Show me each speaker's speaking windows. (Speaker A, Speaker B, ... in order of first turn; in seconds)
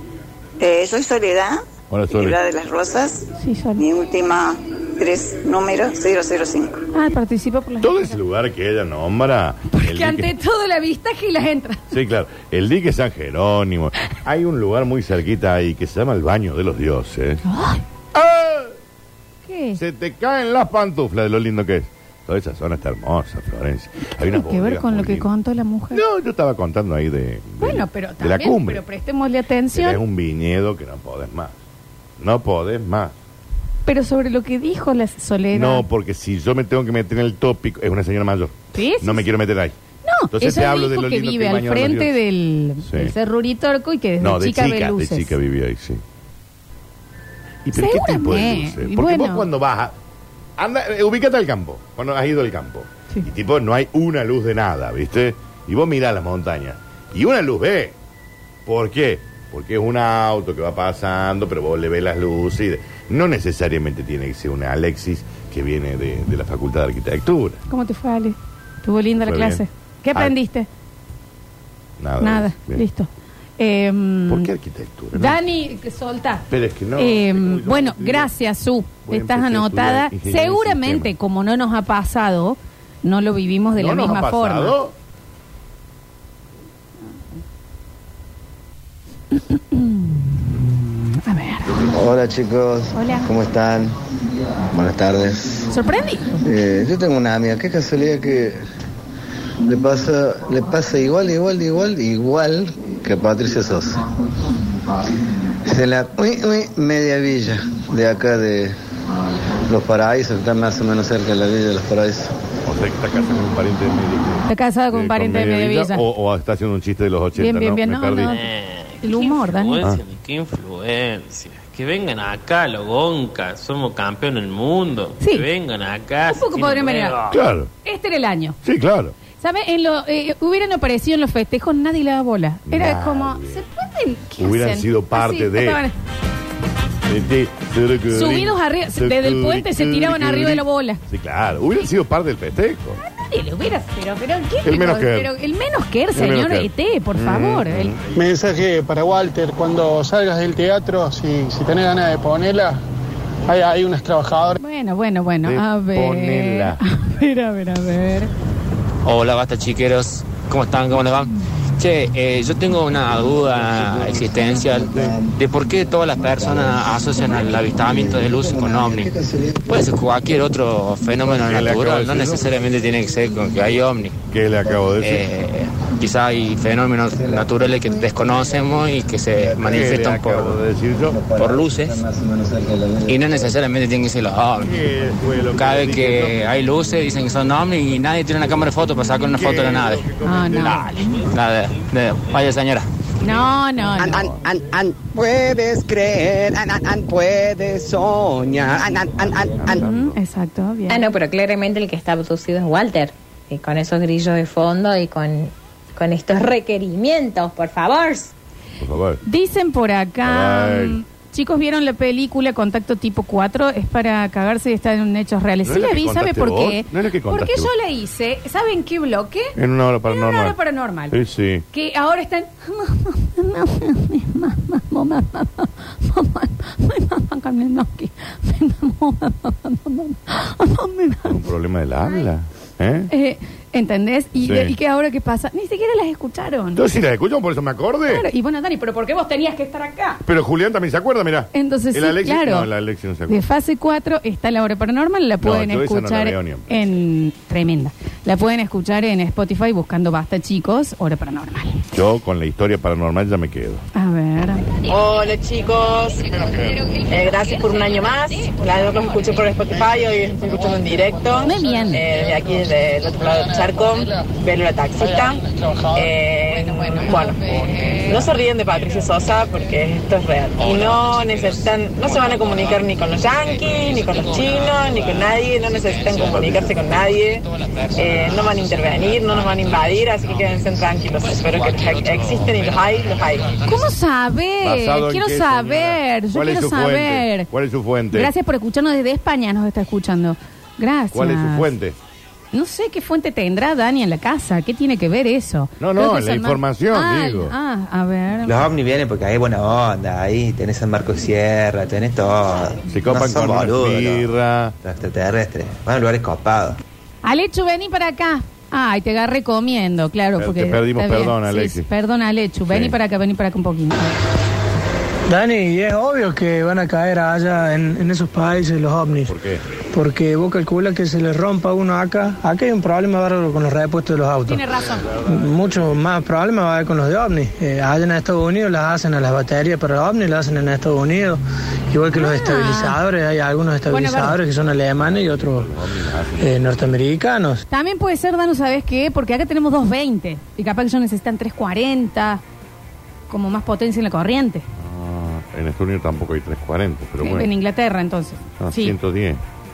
Speaker A: 0.6-6.8
Speaker B: 1.9-2.4, 7.8-10.3, 11.9-17.4, 18.1-18.7, 19.7-25.3, 25.9-28.8, 29.7-31.6, 32.2-33.1, 35.5-39.8, 40.3-42.1, 42.8-43.1, 44.2-46.0, 47.6-49.9, 50.6-58.0, 58.6-67.6, 69.2-69.6, 72.0-72.8, 74.3-75.4, 76.5-78.3, 79.0-81.1, 83.8-84.9, 112.6-118.4, 127.3-127.7, 128.6-129.1, 132.7-133.6, 134.4-135.8, 137.1-143.0, 144.6-145.3, 146.1-148.1, 155.4-156.8, 164.9-165.1, 171.3-172.7, 174.3-175.3, 179.6-181.2, 184.6-186.7, 189.2-190.9, 194.1-194.4, 199.3-200.2, 208.8-209.2, 210.2-211.0, 215.6-217.7, 219.6-220.6, 221.1-221.6, 231.2-233.1, 234.4-234.7, 236.7-238.2, 240.2-243.4, 245.4-246.7, 251.9-253.8, 276.3-276.7, 284.6-288.3, 291.1-292.0, 295.8-297.5, 302.9-304.8, 310.4-311.9, 312.6-312.9, 319.3-319.6, 325.1-325.8, 335.0-336.8, 344.8-347.5, 348.6-349.4
Speaker C: 3.4-3.8, 6.9-8.2, 9.7-11.9, 17.4-17.8, 19.5-19.8, 24.2-26.0, 27.6-30.0, 33.9-35.9, 38.7-39.2, 40.0-45.3, 47.7-49.5, 67.7-70.7, 72.2-74.5, 75.1-84.7, 89.3-91.7, 92.9-93.3, 95.7-96.4, 114.5-116.0, 117.3-118.4, 119.0-119.8, 125.2-125.5, 126.2-127.2, 127.8-128.6, 129.4-135.9, 138.1-141.0, 143.1-147.9, 154.6-158.3, 190.2-191.2, 193.2-194.2, 199.7-201.0, 209.2-219.5, 220.1-221.2, 221.7-231.4, 233.1-236.8, 238.1-240.2, 241.5-242.7, 243.3-251.8, 253.9-254.7, 261.4-262.0, 283.7-287.5, 288.1-291.7, 292.5-298.6, 307.2-314.2, 324.4-325.1, 332.1-333.0, 333.9-334.4, 337.7-342.4, 343.3-344.6, 347.2-348.9
Speaker D: 91.8-93.9, 94.7-95.7, 96.4-98.6, 99.6-104.0, 105.7-108.7, 109.7-112.3, 163.2-169.8, 174.6-174.9, 177.1-180.1, 181.1-183.5
Speaker E: 118.2-127.4
Speaker F: 148.1-152.8, 153.5-154.5
Speaker G: 159.0-169.1, 169.7-174.2, 175.0-180.6, 181.4-182.0, 183.1-184.8, 185.5-192.9
Speaker H: 194.0-199.8
Speaker I: 200.9-208.3
Speaker J: 254.8-256.5, 257.1-267.4, 268.1-277.4, 277.9-283.5
Speaker K: 298.5-304.2, 304.8-306.8
Speaker L: 315.3-319.3, 319.9-324.6, 325.2-331.4, 331.9-335.7, 336.4-337.6